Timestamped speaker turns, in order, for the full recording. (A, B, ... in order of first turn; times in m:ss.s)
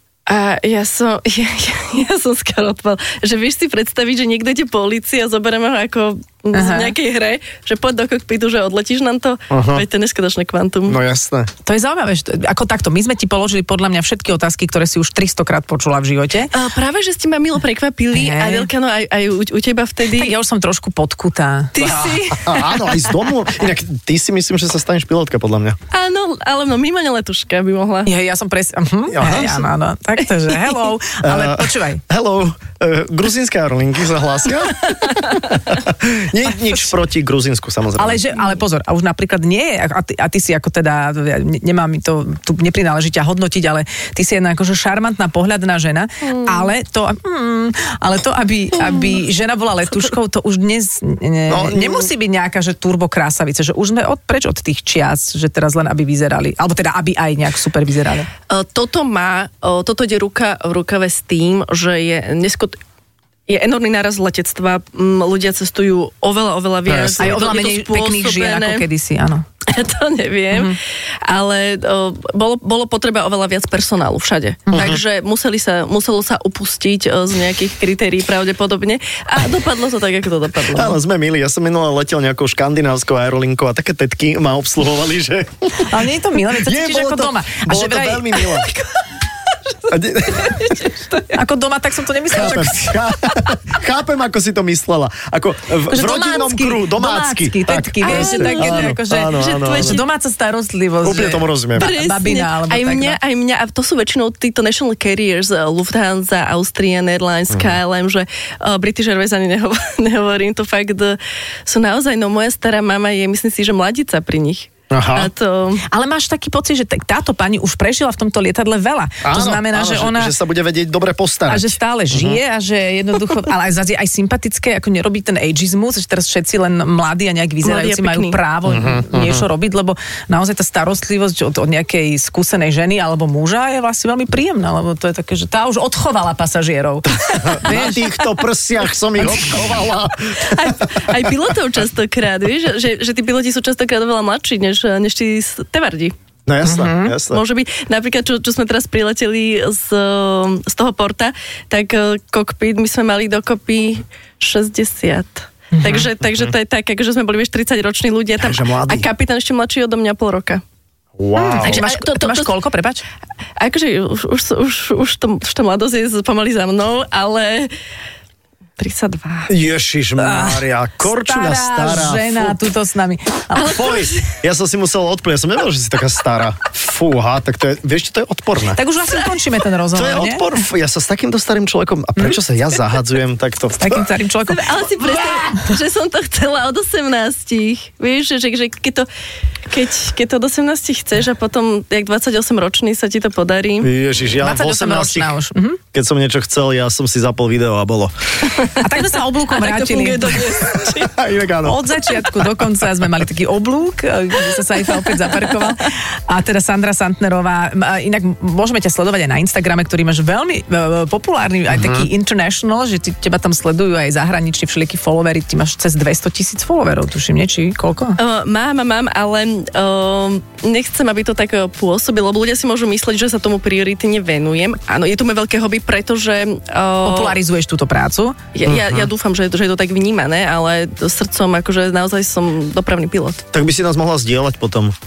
0:00.3-0:11.0 A
0:06.5-0:06.9 B
0:09.5-0:09.8 C
0:10.9-0:11.5 C
0:11.6-0:16.5 B
0:16.5-0:20.3 A
0:18.1-0:18.7 B
0:20.1-0:22.2 B
0:21.7-0:23.1 A
0:22.4-0:25.8 C
0:25.9-0:28.1 A
0:28.0-0:32.0 B
0:29.1-0:29.6 C
0:31.2-0:38.2 C
0:38.0-0:58.3 B
0:46.3-0:46.7 A
0:51.5-0:52.1 C
0:58.5-1:02.8 A
1:03.5-1:08.8 A
1:06.9-1:07.4 C
1:07.2-1:09.4 B
1:09.7-1:21.0 A
1:10.5-1:10.8 B
1:14.7-1:15.0 C
1:20.7-1:25.9 C
1:25.8-1:28.4 B
1:26.5-1:28.7 C
1:28.4-1:31.4 A
1:29.9-1:30.8 C
1:31.3-1:33.0 B
1:32.3-1:40.0 C
1:35.9-1:43.2 B
1:38.0-1:40.0 A
1:41.0-1:41.9 C
1:41.8-1:55.8 A
1:47.5-1:47.8 C
1:54.9-1:55.3 C
1:55.9-2:00.4 B
1:59.2-2:02.4 C
2:01.5-2:18.0 B
2:07.6-2:08.4 A
2:08.7-2:09.4 C
2:17.3-2:20.8 C
2:20.3-2:26.1 A
2:26.5-2:27.4 C
2:26.6-2:27.1 B
2:27.3-2:40.6 A
2:35.7-2:36.1 B
2:38.4-2:39.1 C
2:41.2-2:41.8 C
2:41.4-2:43.0 B
2:41.6-2:42.5 A
2:43.6-2:47.7 A
2:48.8-2:49.5 A
2:49.5-2:52.6 C
2:50.2-2:53.8 B
2:53.5-2:54.4 A
2:53.6-2:58.8 C
2:58.7-3:00.6 B
2:59.9-3:04.1 C
3:03.8-3:05.6 B
3:04.5-3:09.1 A
3:09.7-3:13.9 A
3:13.8-3:15.3 C
3:14.4-3:15.8 B
3:15.9-3:18.5 C
3:18.5-3:21.2 A
3:18.7-3:20.5 B
3:21.0-3:22.6 C
3:21.6-3:38.2 B
3:31.7-3:32.1 C
3:38.2-3:47.4 A
3:47.0-3:48.4 B
3:48.5-3:53.4 A
3:48.6-3:49.1 C
3:53.5-3:54.9 C